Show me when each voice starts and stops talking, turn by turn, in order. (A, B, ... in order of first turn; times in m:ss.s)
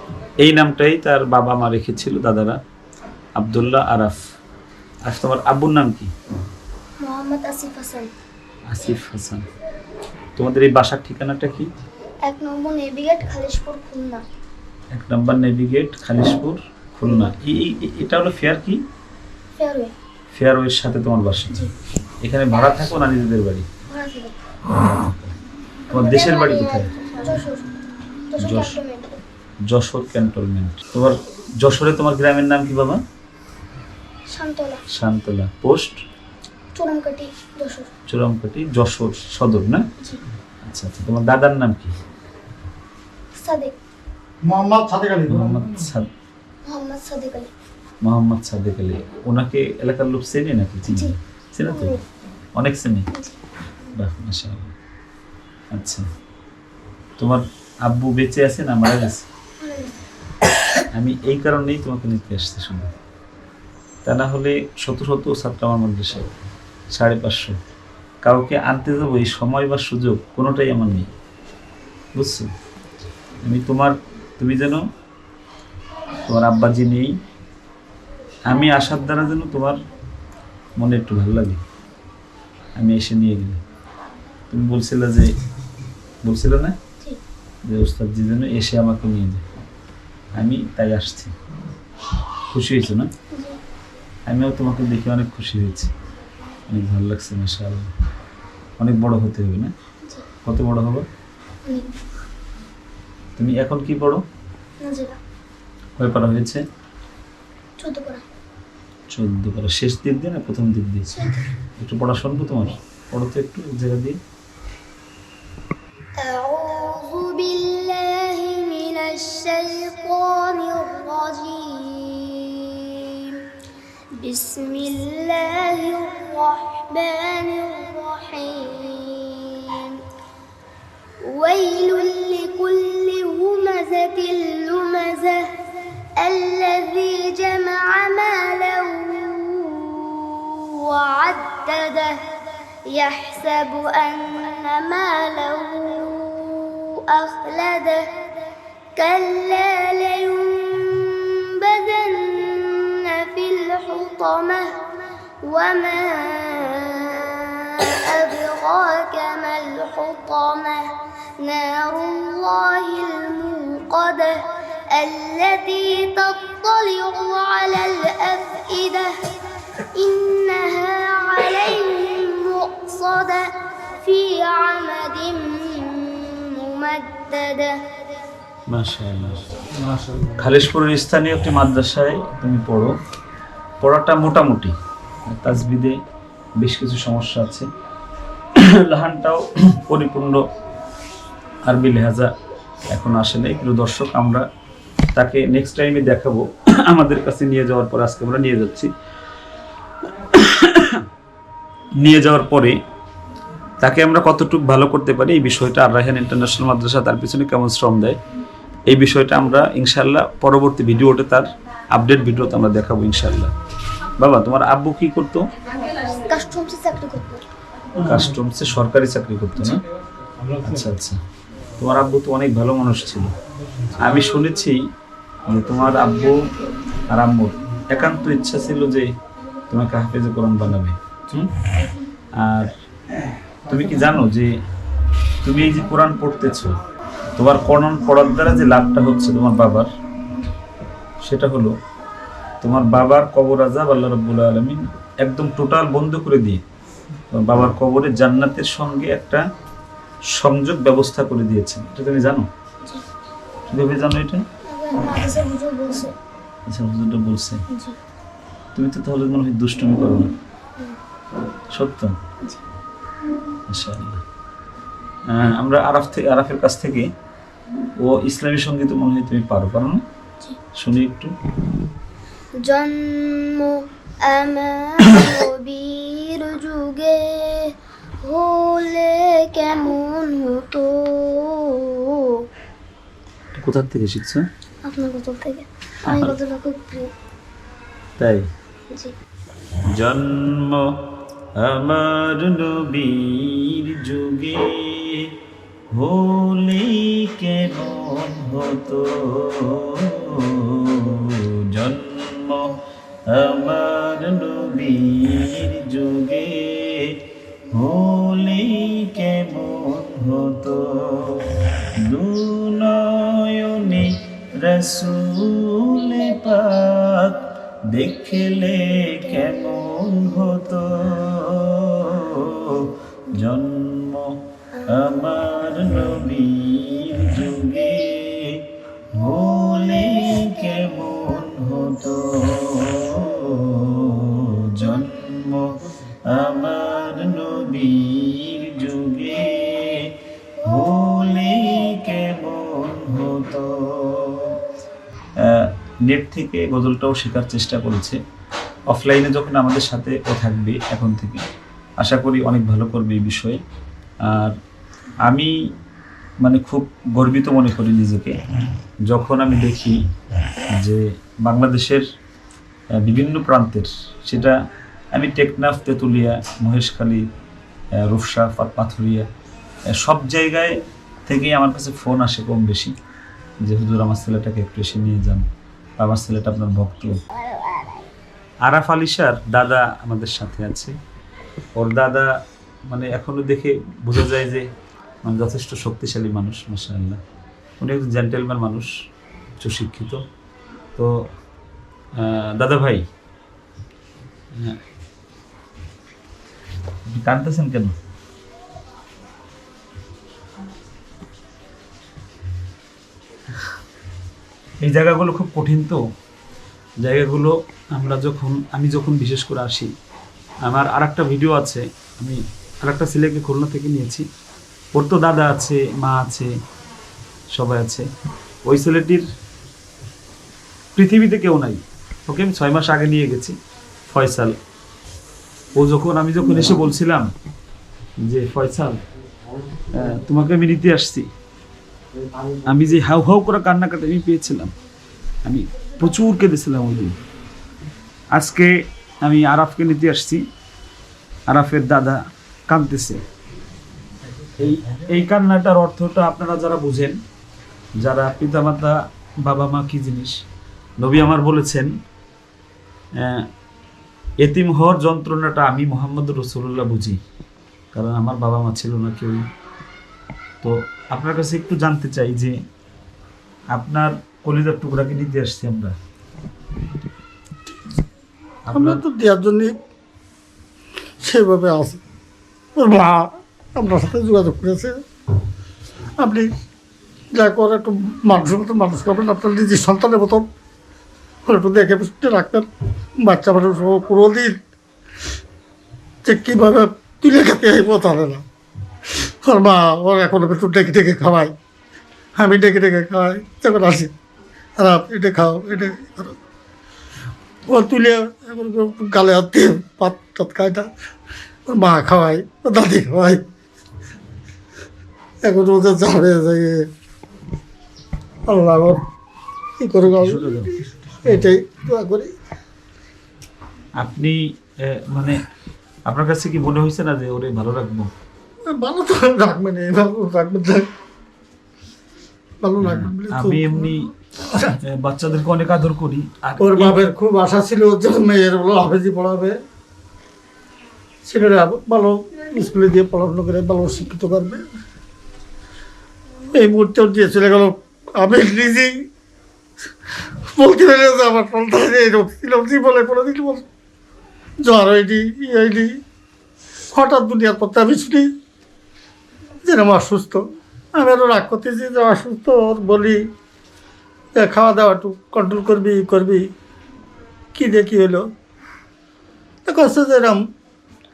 0:00.4-0:02.6 A
0:03.4-0:04.2 A
0:05.1-0:06.1 A
0:07.0-0:08.1 B
0:08.7-0:09.4 A
0:10.4-0:11.7 A
0:12.3-0:14.2 B
0:14.9-0:18.8 A
0:19.6-0:19.9 B
0:20.3-0:21.5 A
0:22.2-0:23.6 A
0:23.9-0:24.4 B
0:24.7-0:25.3 A
0:25.9-0:26.9 A
0:25.9-0:27.7 B
0:28.3-0:29.1 B
0:28.4-0:28.8 A
0:29.7-0:33.0 A
0:34.3-0:34.8 B
0:34.9-0:36.0 A
0:36.8-0:37.9 B
0:38.1-0:39.8 A
0:40.6-0:41.9 A
0:43.4-0:43.7 B
0:44.4-0:45.7 C
0:45.3-0:46.1 A
0:46.7-0:47.5 B
0:48.0-0:51.9 A
0:51.7-0:52.0 B
0:52.6-0:53.1 A
0:54.0-0:54.7 A
0:55.7-0:56.0 A
0:57.2-0:59.3 A
0:59.6-0:59.9 B
1:00.9-1:02.9 A
1:04.0-1:06.3 A
1:06.9-1:07.6 A
1:08.2-1:11.1 A
1:12.1-1:12.5 A
1:13.4-1:14.8 A
1:16.2-1:17.2 A
1:18.5-1:19.8 A
1:20.8-1:21.6 A
1:22.8-1:23.6 A
1:24.5-1:25.3 A
1:26.2-1:26.8 A
1:27.7-1:29.4 A
1:30.4-1:31.3 A
1:32.5-1:33.1 A
1:33.3-1:33.6 B
1:34.3-1:35.9 A
1:36.7-1:37.9 A
1:38.8-1:39.7 A
1:40.4-1:41.0 A
1:41.7-1:41.9 B
1:43.4-1:44.2 A
1:44.8-1:45.2 B
1:46.0-1:46.6 A
1:47.8-1:48.2 B
1:49.1-1:51.1 A
1:51.1-1:51.5 B
1:51.8-1:54.2 A
1:56.2-2:03.3 B
2:04.2-2:10.0 B
2:11.3-2:15.4 B
2:16.2-2:22.2 B
2:22.9-2:28.0 B
2:29.0-2:34.8 B
2:35.4-2:40.9 B
2:41.4-2:49.1 B
2:49.8-2:57.8 B
2:58.7-2:59.4 A
3:00.2-3:02.9 A
3:03.8-3:04.7 A
3:05.3-3:06.0 A
3:06.6-3:07.7 A
3:08.6-3:10.4 A
3:11.7-3:12.3 A
3:12.9-3:14.4 A
3:15.2-3:18.9 A
3:20.3-3:21.0 A
3:22.0-3:22.8 A
3:23.8-3:28.2 A
3:28.9-3:33.5 A
3:34.2-3:35.5 A
3:35.9-3:37.4 B
3:38.0-3:39.8 A
3:40.6-3:41.2 A
3:41.8-3:43.3 A
3:44.0-3:44.8 A
3:45.5-3:46.4 A
3:47.1-3:49.1 A
3:49.7-3:51.5 A
3:52.4-3:52.7 A
3:53.7-3:54.5 A
3:55.4-3:56.8 A
3:57.4-3:59.9 A
4:01.2-4:01.7 A
4:02.6-4:06.6 A
4:07.3-4:09.4 A
4:10.3-4:12.5 A
4:13.7-4:14.4 A
4:14.7-4:16.1 B
4:16.7-4:17.6 A
4:17.7-4:18.0 B
4:18.8-4:20.3 A
4:21.7-4:22.1 A
4:23.7-4:24.2 A
4:25.3-4:27.1 A
4:28.0-4:30.0 A
4:30.8-4:31.3 A
4:32.6-4:33.7 B
4:34.3-4:37.7 B
4:38.2-4:42.2 B
4:43.6-4:44.4 A
4:44.8-4:47.1 B
4:46.1-4:46.3 A
4:48.2-4:48.4 A
4:49.9-4:50.8 A
4:51.6-4:55.3 A
4:55.9-5:02.7 A
5:03.3-5:11.4 A
5:12.0-5:24.4 A
5:24.9-5:35.7 A
5:36.3-5:44.6 A
5:45.4-5:48.2 A
5:48.9-5:51.4 A
5:52.0-5:53.6 A
5:54.3-5:54.6 A
5:55.2-5:55.5 A
5:56.4-5:58.4 A
5:59.1-6:00.0 A
6:00.8-6:02.0 A
6:03.0-6:04.6 A
6:05.1-6:07.3 A
6:08.0-6:09.3 A
6:09.9-6:12.9 A
6:13.6-6:15.5 A
6:16.0-6:17.2 A
6:17.5-6:17.9 B
6:18.6-6:20.9 A
6:21.8-6:22.3 A
6:22.9-6:24.6 A
6:25.2-6:27.2 A
6:27.8-6:28.9 A
6:29.6-6:30.2 A
6:32.2-6:33.1 A
6:37.1-6:38.0 A
6:44.8-6:46.0 A
6:47.0-6:49.9 A
6:50.6-6:54.3 A
6:54.9-6:56.5 A
6:57.5-6:58.1 A
6:58.6-6:59.2 A
7:01.0-7:03.6 A
7:04.1-7:04.5 A
7:05.7-7:07.3 A
7:08.2-7:09.0 A
7:09.9-7:11.3 A
7:12.6-7:14.7 A
7:15.4-7:17.2 A
7:18.3-7:20.4 A
7:21.5-7:23.2 A
7:24.6-7:27.2 A
7:28.0-7:30.3 A
7:31.0-7:31.9 A
7:33.2-7:33.5 A
7:34.4-7:37.2 A
7:37.9-7:39.4 A
7:40.6-7:42.6 A
7:43.7-7:46.0 A
7:48.7-7:49.0 A
7:48.7-7:49.8 C
7:51.2-7:52.0 C
7:52.8-7:55.0 C
7:56.2-7:56.5 C
7:57.3-8:00.5 C
8:01.5-8:02.7 C
8:03.2-8:04.6 C
8:06.2-8:08.4 C
8:09.4-8:11.5 C
8:12.4-8:14.1 C
8:14.8-8:16.4 C
8:17.7-8:20.9 C
8:21.7-8:23.4 C
8:25.4-8:26.9 C
8:28.5-8:29.0 C
8:29.8-8:32.3 C
8:30.2-8:30.7 A
8:34.0-8:35.4 A
8:36.1-8:38.1 A
8:38.7-8:40.9 C
8:42.6-8:44.0 C
8:42.8-8:44.1 A
8:44.8-8:47.0 A
8:46.6-8:49.6 C
8:51.2-8:54.6 C
8:56.5-8:58.9 C
9:00.5-9:03.6 C
9:04.6-9:05.9 C
9:06.9-9:08.3 C
9:09.6-9:10.4 C
9:10.9-9:13.2 C
9:14.4-9:16.5 C
9:17.6-9:18.3 C
9:19.7-9:20.4 C